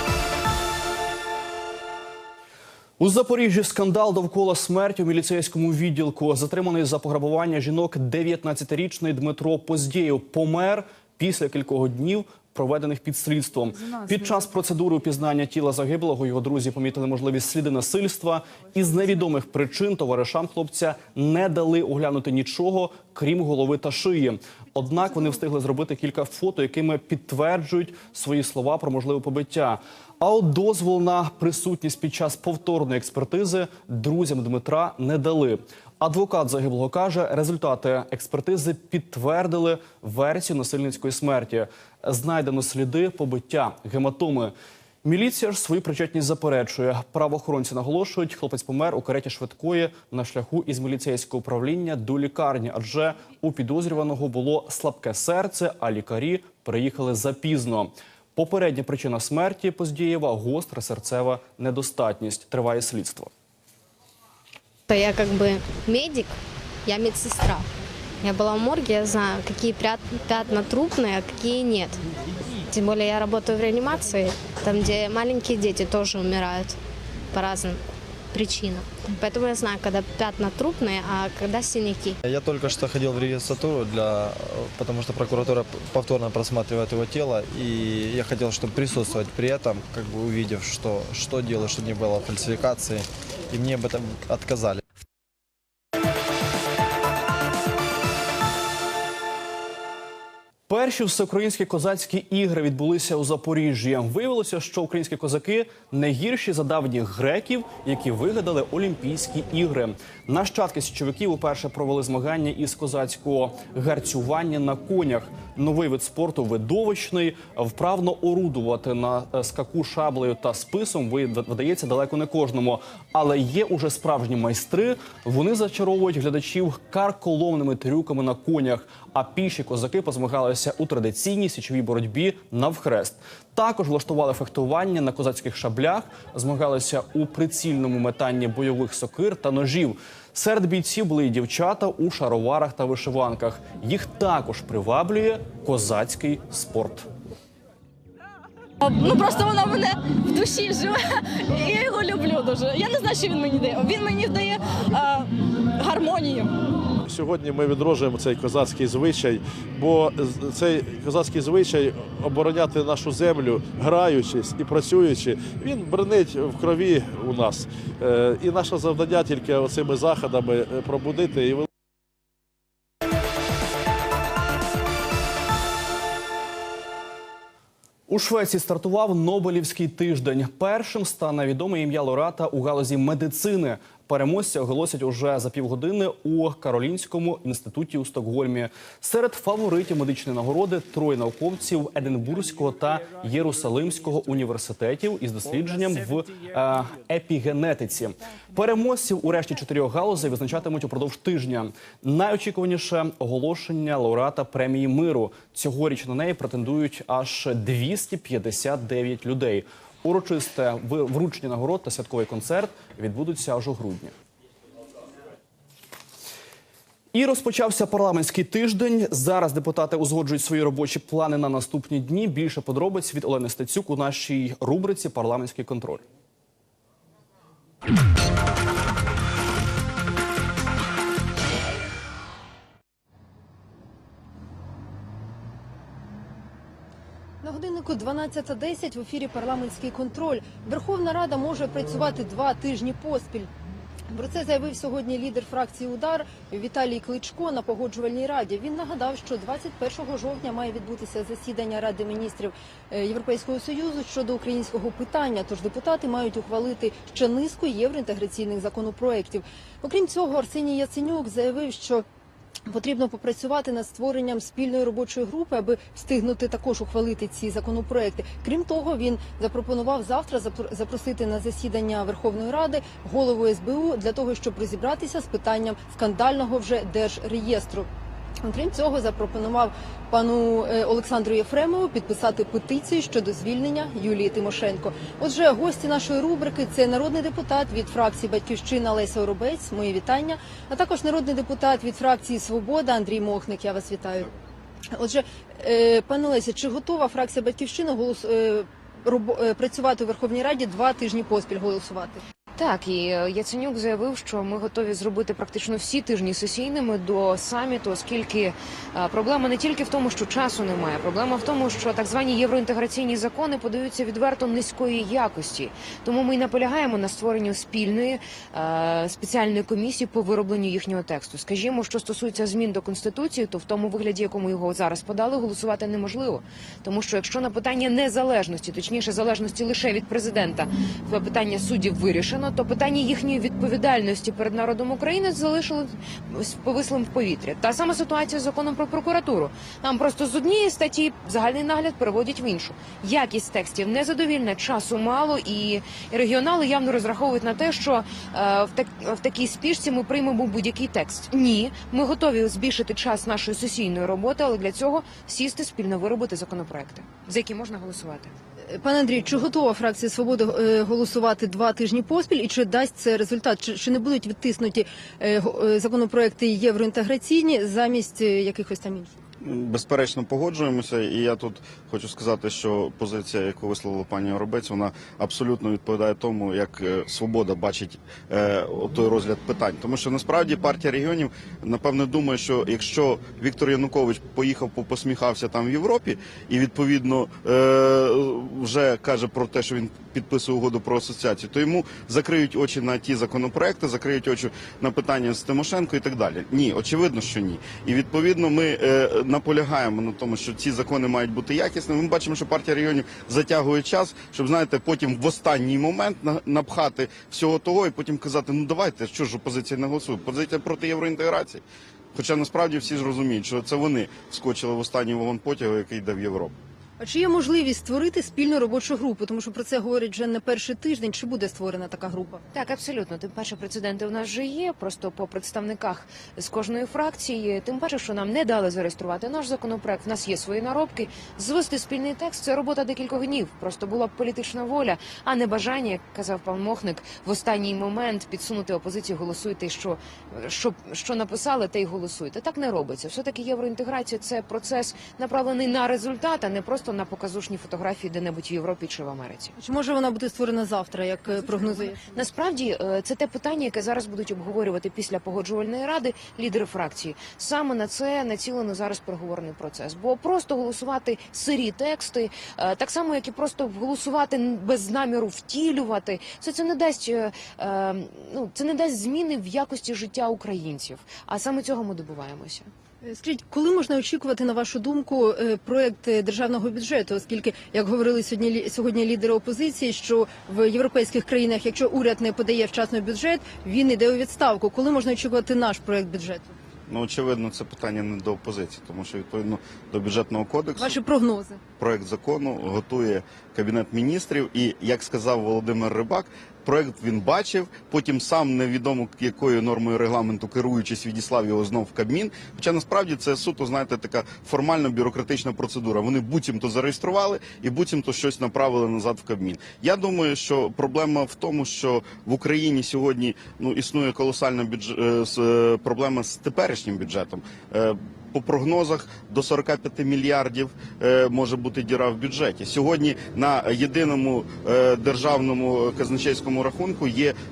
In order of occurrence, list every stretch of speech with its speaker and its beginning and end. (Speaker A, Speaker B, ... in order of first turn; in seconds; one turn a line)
Speaker A: 3.0-63.3
Speaker B: 64.9-66.3
Speaker B: 66.9-67.7
Speaker B: 68.2-72.0
Speaker B: 72.7-76.8
Speaker B: 77.3-77.8
Speaker B: 78.3-82.2
Speaker C: 82.3-94.8
Speaker A: 100.7-147.1
Speaker D: 148.8-156.5
Speaker E: 157.1-171.7
Speaker A: 178.1-214.1
Speaker A: 217.1-226.0
Speaker F: 237.4-243.5
Speaker F: 244.1-262.1
Speaker F: 262.7-277.9
Speaker F: 278.4-294.3
Speaker F: 294.9-302.2
Speaker G: 302.6-358.3
Speaker F: 358.7-369.1
Speaker H: 369.4-416.6
Speaker F: 417.0-422.4
Speaker G: 422.5-449.5
Speaker F: 449.6-452.2
Speaker G: 451.4-472.7
Speaker F: 473.0-486.5
Speaker H: 486.9-491.0
Speaker F: 490.8-491.6
Speaker H: 491.8-527.4